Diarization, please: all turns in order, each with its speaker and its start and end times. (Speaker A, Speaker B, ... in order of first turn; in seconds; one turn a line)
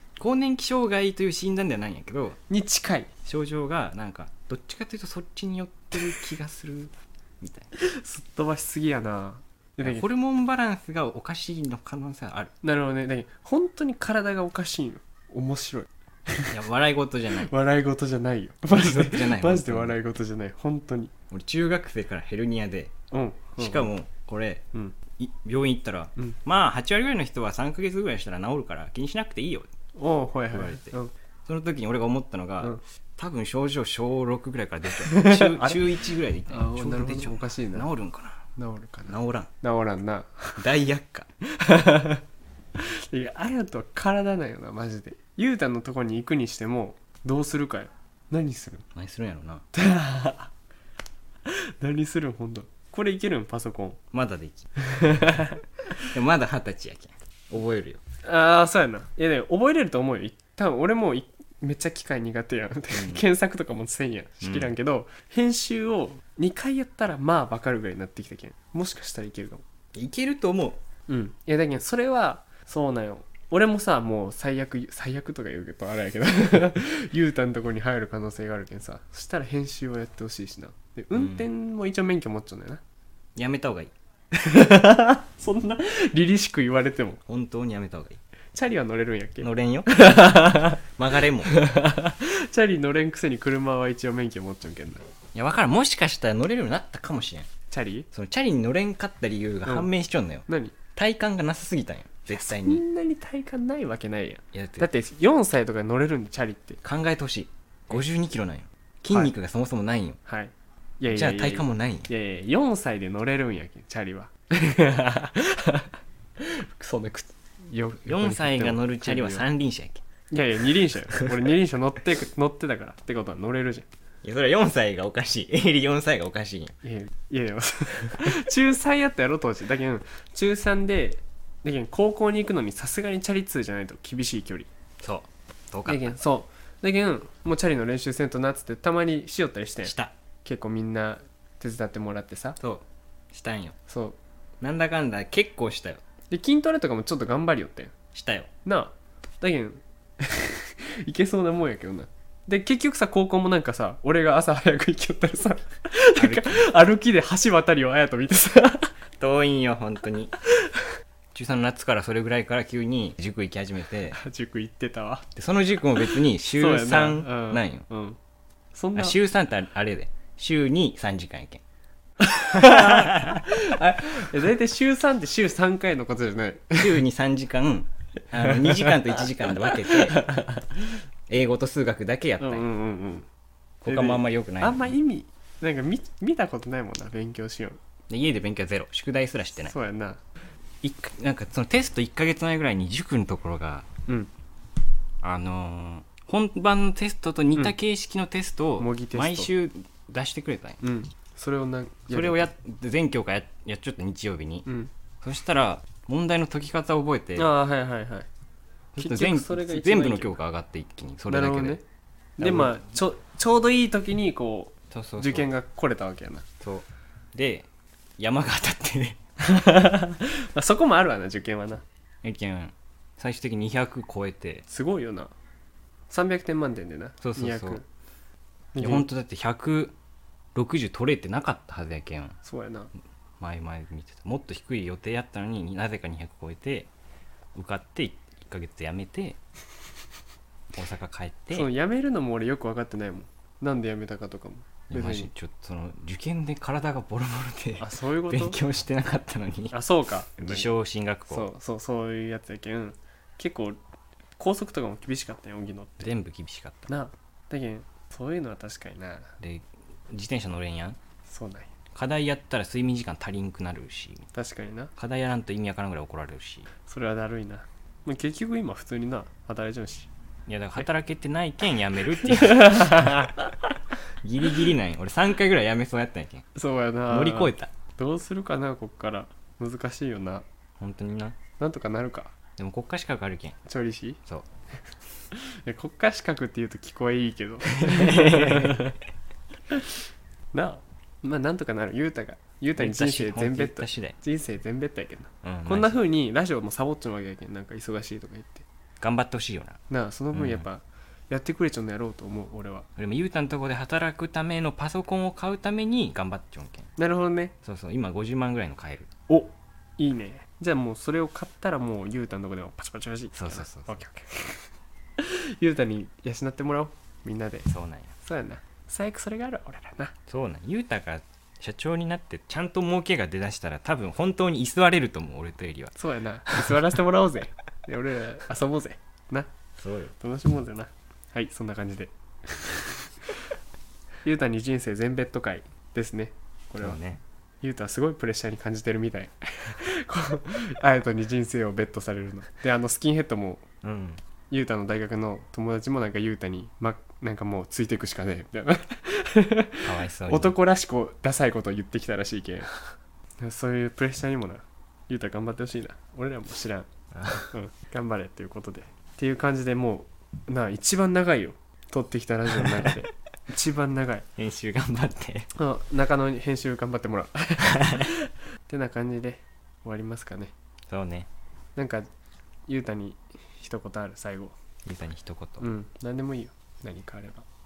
Speaker A: 0.2-2.4
Speaker B: 2.5-3.1
Speaker A: 3.2-7.7
Speaker B: 7.8-10.1
Speaker A: 9.8-12.5
Speaker B: 12.6-16.5
Speaker A: 16.5-17.5
Speaker B: 17.4-21.1
Speaker A: 18.7-20.0
Speaker A: 21.3-22.9
Speaker B: 23.1-23.9
Speaker A: 23.6-24.6
Speaker A: 25.2-29.7
Speaker B: 29.9-31.1
Speaker A: 30.5-38.4
Speaker B: 35.1-35.8
Speaker B: 36.5-37.9
Speaker B: 38.5-40.6
Speaker A: 39.1-39.5
Speaker A: 40.6-41.3
Speaker B: 41.5-42.2
Speaker B: 42.8-48.8
Speaker A: 48.9-49.6
Speaker B: 49.7-50.5
Speaker B: 51.5-54.0
Speaker A: 54.1-54.7
Speaker B: 54.8-55.6
Speaker A: 56.0-58.0
Speaker B: 58.2-69.6
Speaker A: 62.9-63.2
Speaker A: 64.4-64.7
Speaker A: 69.9-70.8
Speaker B: 71.1-82.8
Speaker A: 81.1-81.5
Speaker A: 83.4-83.9
Speaker B: 84.3-87.2
Speaker A: 87.3-88.2
Speaker B: 88.5-90.8
Speaker A: 89.4-91.6
Speaker B: 91.5-95.0
Speaker A: 95.3-97.5
Speaker B: 97.7-98.1
Speaker A: 98.1-102.8
Speaker B: 100.5-100.8
Speaker B: 102.3-106.8
Speaker A: 104.5-104.9
Speaker A: 106.8-110.2
Speaker B: 110.3-115.9
Speaker A: 111.1-112.1
Speaker B: 116.8-119.4
Speaker A: 118.0-120.0
Speaker B: 120.3-123.9
Speaker A: 124.2-126.7
Speaker B: 126.8-134.7
Speaker A: 135.0-136.1
Speaker B: 135.9-139.9
Speaker A: 139.8-140.1
Speaker B: 140.4-142.6
Speaker A: 142.6-143.8
Speaker B: 143.9-144.2
Speaker A: 144.6-146.0
Speaker B: 146.3-147.9
Speaker A: 148.1-148.5
Speaker B: 148.7-158.9
Speaker A: 156.2-156.6
Speaker A: 159.2-160.4
Speaker A: 161.3-164.2
Speaker B: 164.1-165.3
Speaker A: 165.3-167.8
Speaker B: 166.4-168.2
Speaker B: 168.7-169.2
Speaker A: 168.9-171.6
Speaker B: 172.3-177.0
Speaker A: 172.6-173.4
Speaker A: 176.8-180.3
Speaker B: 178.4-178.9
Speaker B: 179.8-180.7
Speaker A: 181.3-182.6
Speaker B: 182.4-183.3
Speaker A: 183.8-184.9
Speaker B: 183.9-187.8
Speaker A: 188.1-189.7
Speaker B: 189.7-190.2
Speaker A: 190.8-193.9
Speaker A: 195.2-200.8
Speaker B: 198.8-199.5
Speaker B: 200.8-202.5
Speaker A: 202.1-204.7
Speaker A: 205.2-207.5
Speaker B: 207.4-208.3
Speaker A: 208.9-211.8
Speaker B: 209.0-210.3
Speaker B: 211.3-211.8
Speaker B: 212.4-216.4
Speaker A: 212.4-212.8
Speaker A: 214.9-215.5
Speaker A: 216.6-217.7
Speaker A: 218.2-219.2
Speaker B: 219.4-221.8
Speaker A: 222.2-224.6
Speaker B: 224.7-225.3
Speaker B: 226.1-227.8
Speaker A: 227.2-227.8
Speaker B: 228.7-229.1
Speaker A: 228.8-229.9
Speaker A: 230.6-232.4
Speaker B: 232.4-232.9
Speaker A: 233.4-236.9
Speaker A: 237.6-239.4
Speaker A: 240.7-241.7
Speaker B: 241.5-245.3
Speaker A: 244.9-249.8
Speaker B: 247.8-248.6
Speaker B: 249.7-250.7
Speaker A: 250.4-251.5
Speaker B: 251.3-253.8
Speaker B: 254.4-256.1
Speaker A: 256.0-256.9
Speaker B: 256.9-259.3
Speaker A: 259.4-261.0
Speaker B: 261.3-261.7
Speaker A: 261.9-264.3
Speaker B: 264.3-264.9
Speaker A: 264.9-266.7
Speaker B: 266.9-270.1
Speaker A: 270.5-273.3
Speaker B: 272.3-273.7
Speaker A: 274.2-276.4
Speaker B: 276.6-280.4
Speaker A: 277.1-277.7
Speaker A: 280.8-281.4
Speaker B: 281.6-282.3
Speaker A: 282.6-283.6
Speaker B: 283.6-284.2
Speaker B: 285.3-288.9
Speaker A: 287.7-288.9
Speaker B: 290.5-298.6
Speaker A: 292.8-294.1
Speaker A: 295.4-296.0
Speaker A: 299.0-299.8
Speaker B: 299.9-302.9
Speaker A: 300.3-300.6
Speaker A: 303.0-306.9
Speaker B: 307.0-307.5
Speaker A: 307.6-309.1
Speaker B: 309.3-314.6
Speaker A: 313.3-314.0
Speaker B: 315.2-317.7
Speaker A: 317.7-318.1
Speaker B: 318.2-320.1
Speaker A: 320.3-325.9
Speaker B: 325.9-329.5
Speaker A: 326.5-326.8
Speaker A: 329.8-330.1
Speaker B: 330.2-333.1
Speaker B: 334.2-337.0
Speaker A: 336.8-337.2
Speaker B: 337.6-343.6
Speaker A: 343.8-344.2
Speaker B: 344.5-352.7
Speaker A: 349.8-350.6
Speaker B: 353.4-356.9
Speaker A: 357.1-357.5
Speaker B: 357.5-364.3
Speaker A: 364.4-365.5
Speaker B: 365.6-370.5
Speaker A: 367.7-368.1
Speaker A: 370.9-371.3
Speaker B: 371.8-372.1
Speaker B: 372.7-374.6
Speaker A: 374.8-375.6
Speaker B: 375.6-377.4